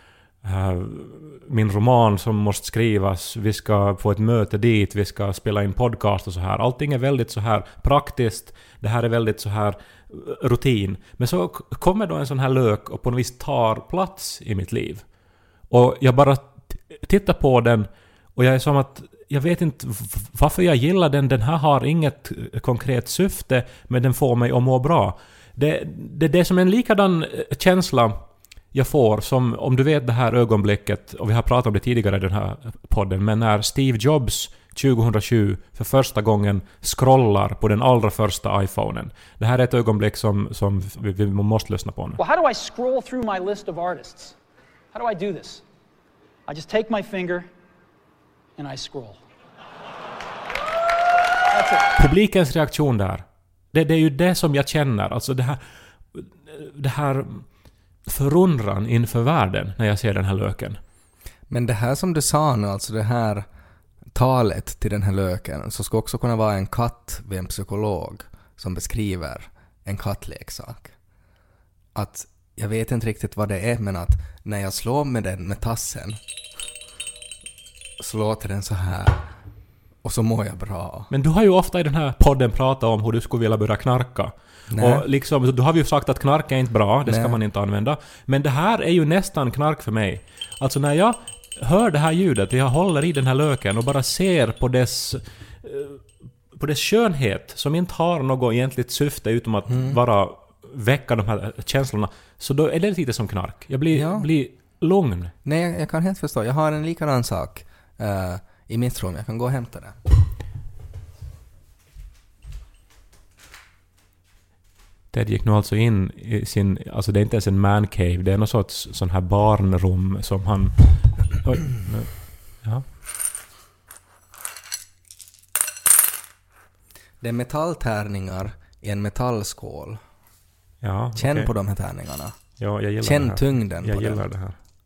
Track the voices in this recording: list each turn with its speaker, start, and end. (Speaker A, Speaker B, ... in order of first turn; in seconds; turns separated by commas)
Speaker A: 0.4-15.0, Speaker A: 15.7-42.2, Speaker B: 42.2-44.4, Speaker B: 44.9-45.6, Speaker B: 46.5-47.5, Speaker B: 48.6-49.2, Speaker A: 51.9-55.6, Speaker A: 56.1-57.5, Speaker A: 58.0-60.8, Speaker C: 61.5-63.5, Speaker C: 64.1-70.9, Speaker C: 71.9-76.2, Speaker C: 78.0-79.3, Speaker C: 80.0-81.1, Speaker A: 81.1-105.3, Speaker C: 84.7-85.0, Speaker C: 87.0-87.3, Speaker C: 99.7-100.0, Speaker C: 103.9-104.3, Speaker C: 105.4-110.0, Speaker A: 115.1-122.8, Speaker C: 127.2-130.0, Speaker A: 130.8-131.5, Speaker C: 131.1-132.4, Speaker A: 132.6-134.6, Speaker C: 133.0-134.2